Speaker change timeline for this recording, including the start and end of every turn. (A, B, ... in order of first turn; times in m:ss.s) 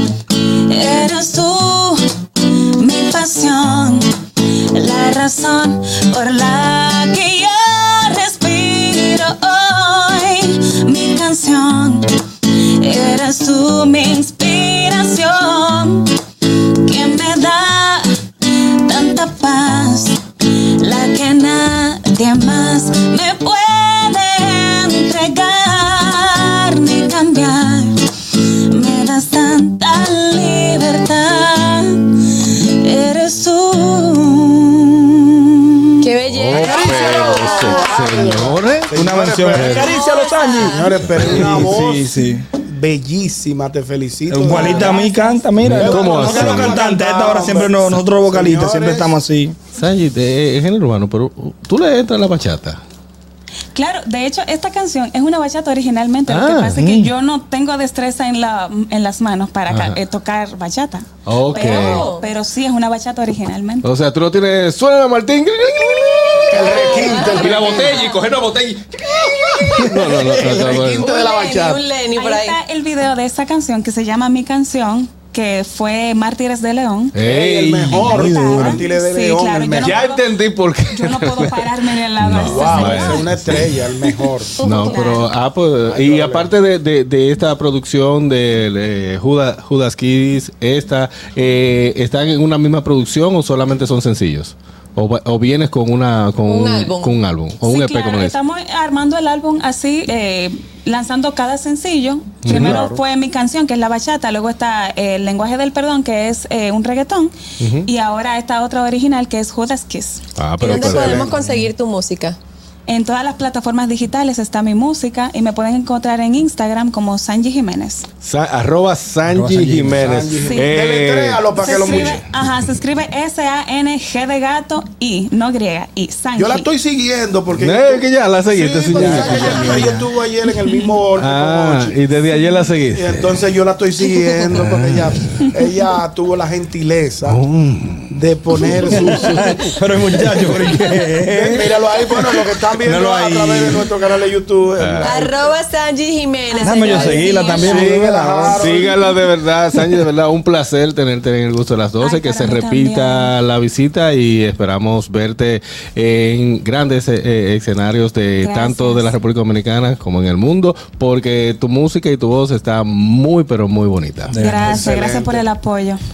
0:00.4-0:36.1 A
0:36.0-0:38.0 B
0:36.2-0:39.0 C
0:36.5-0:40.0 D
0:38.9-0:42.5 E
0:39.5-0:39.9 C
0:40.0-0:40.9 A
0:40.6-0:44.9 D
0:41.0-0:41.6 C
0:44.3-0:49.6 E
0:44.4-0:45.5 A
0:45.6-0:46.8 C
0:45.7-0:49.2 D
0:49.7-0:52.8 C
0:53.7-1:03.9 A
0:56.3-0:56.8 C
0:56.8-0:57.1 E
0:59.7-1:00.0 C
1:01.2-1:02.1 C
1:01.5-1:02.3 B
1:03.8-1:11.1 C
1:06.5-1:08.0 D
1:06.5-1:08.1 B
1:07.0-1:07.7 A
1:10.3-1:12.6 B
1:10.4-1:11.8 D
1:12.1-1:17.2 A
1:17.1-1:18.8 C
1:17.2-1:20.0 D
1:17.9-1:20.3 A
1:18.1-1:18.7 E
1:19.8-1:21.6 C
1:20.9-1:23.5 A
1:22.2-1:23.8 C
1:22.4-1:24.6 D
1:24.6-1:38.4 C
1:24.6-1:25.3 A
1:24.6-1:25.0 B
1:25.8-1:26.5 D
1:36.4-1:37.2 B
1:37.6-1:50.2 A
1:42.4-1:42.8 C
1:42.5-1:43.0 D
1:47.6-1:47.9 C
1:50.4-1:51.4 C
1:50.6-1:52.4 B
1:50.7-1:51.4 D
1:52.9-1:58.0 A
1:58.2-2:02.2 C
1:59.2-2:00.1 E
2:00.0-2:02.2 D
2:00.4-2:00.7 A
2:01.6-2:06.7 A
2:06.4-2:12.0 D
2:07.5-2:10.1 C
2:11.1-2:13.5 C
2:12.9-2:17.4 D
2:14.2-2:15.2 C
2:17.2-2:18.6 C
2:18.1-2:19.6 D
2:18.7-2:23.9 E
2:21.3-2:25.4 D
2:24.8-2:25.2 C
2:25.0-2:27.7 B
2:26.6-2:28.8 E
2:26.9-2:29.0 D
2:27.1-2:27.7 A
2:27.6-2:44.4 C
2:32.0-2:33.3 A
2:38.4-2:39.2 A
2:44.3-2:44.8 E
2:44.4-2:46.0 A
2:44.6-2:45.4 D